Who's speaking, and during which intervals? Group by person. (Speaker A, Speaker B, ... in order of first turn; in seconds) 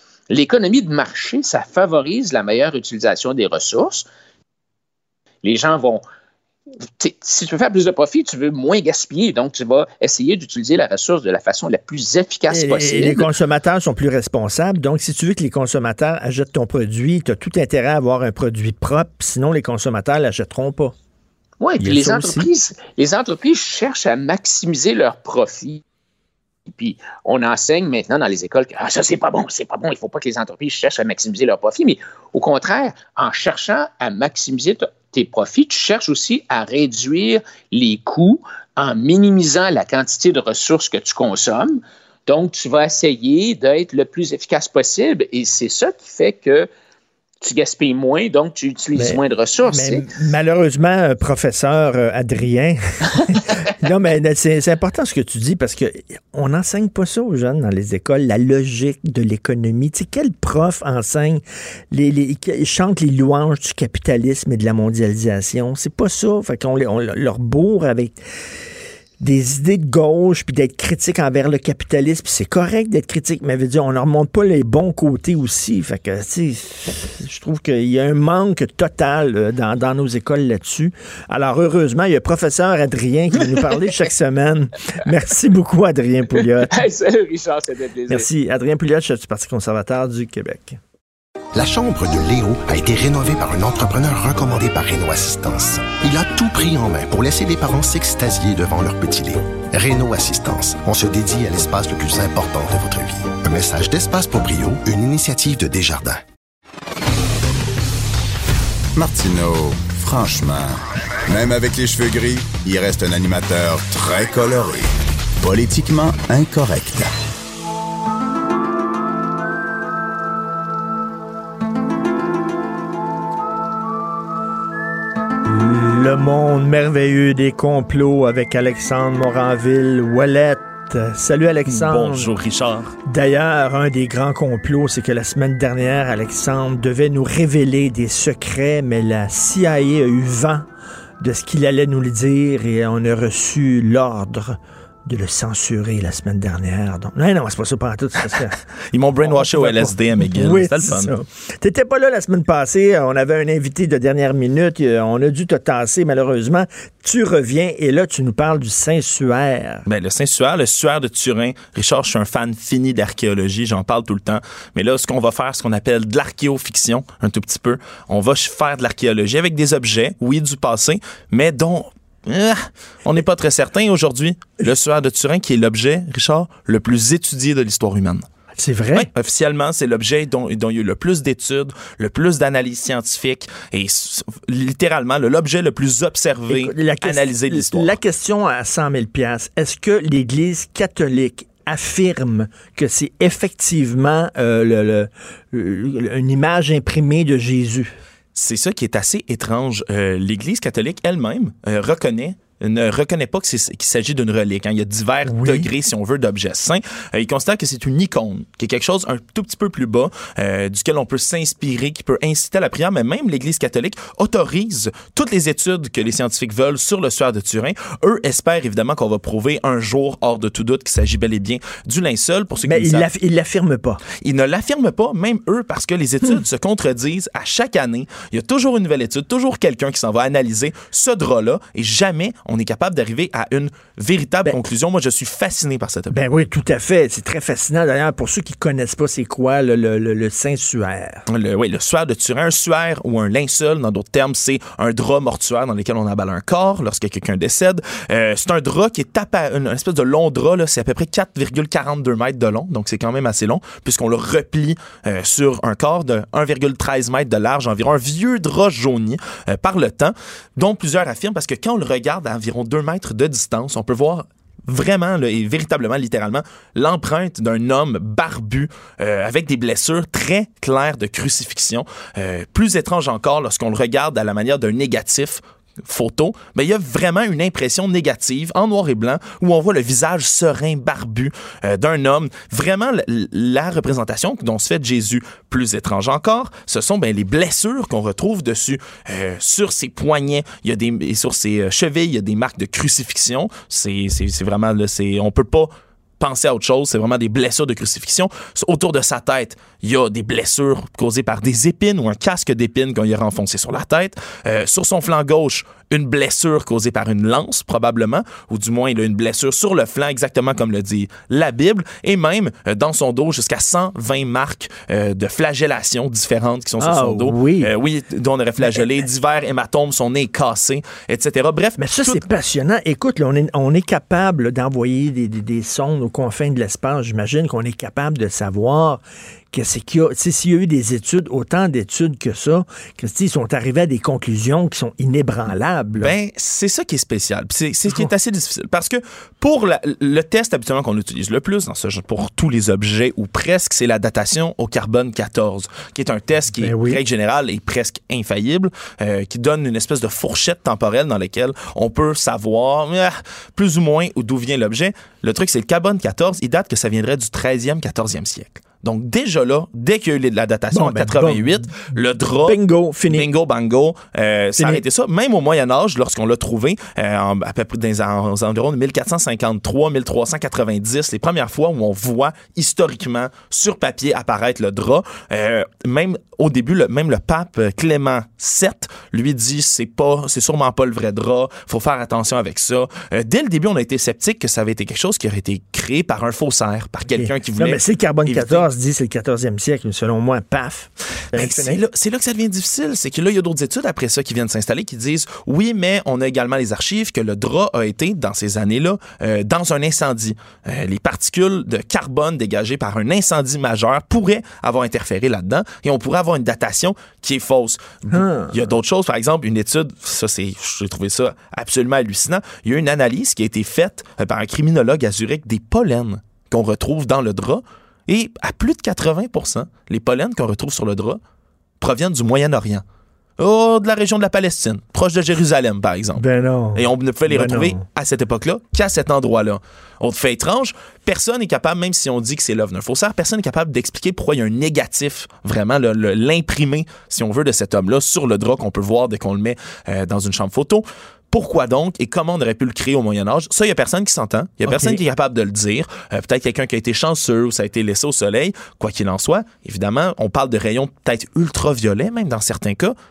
Speaker A: 0.3-4.1, 5.4-6.0, 7.0-13.3, 21.6-25.8, 26.7-46.7, 47.4-50.0, 83.4-83.9, 86.3-88.3
Speaker B: 12.5-20.9, 21.8-22.5, 49.0-68.2, 69.2-86.7, 88.1-90.8, 125.5-132.3, 133.1-140.7, 141.2-148.6, 149.2-159.9, 178.6-179.1, 186.5-197.9, 205.3-205.7, 222.6-224.0, 236.1-241.2, 316.8-317.7, 321.8-336.1, 337.9-338.1, 346.5-347.0, 360.7-361.7, 362.4-363.3, 364.6-364.8, 387.1-391.8, 408.1-408.6, 426.2-427.8, 444.7-445.0
Speaker C: 91.5-106.2
Speaker D: 109.0-114.9, 115.4-117.1
Speaker E: 131.7-132.9, 148.9-151.1, 159.9-178.3, 178.9-187.9, 198.3-223.1, 224.2-236.2, 241.3-322.2, 336.0-388.7, 391.3-421.2, 421.8-422.8, 423.4-452.9